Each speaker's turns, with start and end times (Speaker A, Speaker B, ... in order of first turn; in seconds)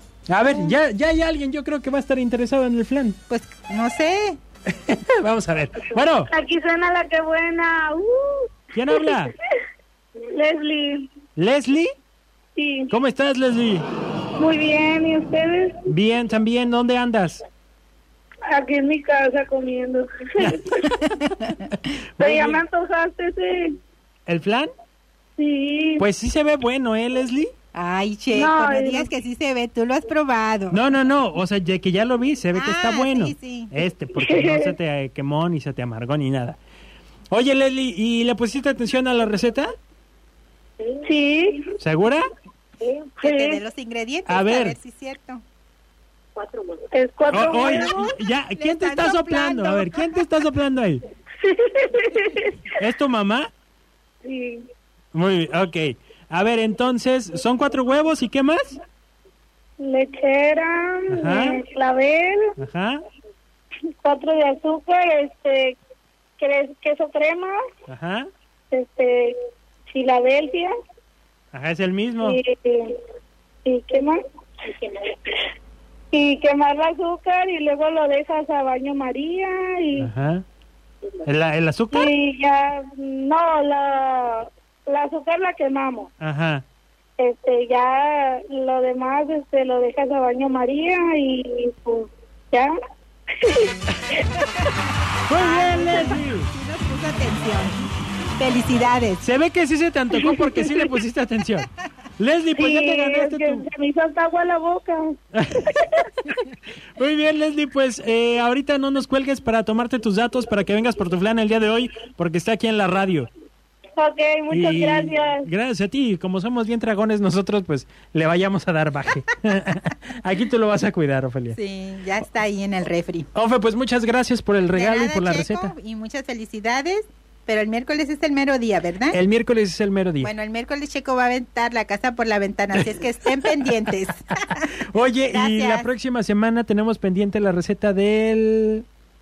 Speaker A: 0.3-3.2, 4.7-6.3, 8.7-9.3, 11.4-11.9, 12.9-13.8, 15.9-17.4, 22.2-22.6, 24.2-24.7, 26.0-27.5, 30.7-36.6, 37.3-39.7, 41.8-42.3, 44.2-44.8, 47.3-51.0, 52.7-53.5, 55.1-58.8, 61.1-61.6, 62.6-63.0, 67.9-68.3, 71.5-72.4, 80.0-80.4, 81.2-82.1, 86.2-86.6, 95.3-96.5, 99.2-103.7, 105.3-106.4, 107.0-113.3, 114.5-121.5, 123.3-125.7, 129.1-130.3, 134.8-138.8
Speaker B: 3.3-4.4, 27.7-30.8, 32.5-33.7, 43.2-45.4, 47.4-50.3, 95.3-97.8, 98.4-99.2, 121.5-123.3, 124.7-129.2, 130.2-134.7, 135.3-135.9
Speaker C: 6.3-9.1, 10.2-11.1, 12.6-12.9, 14.4-15.7, 18.5-21.1, 22.2-23.8, 25.4-26.1, 28.3-29.1, 34.2-34.7, 40.8-41.7, 42.8-43.6, 46.4-48.0, 51.4-52.6, 54.2-54.6, 59.8-62.5, 64.0-65.8, 66.4-67.6, 68.7-69.3, 69.9-70.7, 72.2-72.9, 73.6-75.4, 76.1-80.1, 81.9-86.1, 87.2-92.7, 93.4-94.4, 100.2-100.8, 102.6-105.1, 105.6-106.0, 114.0-115.4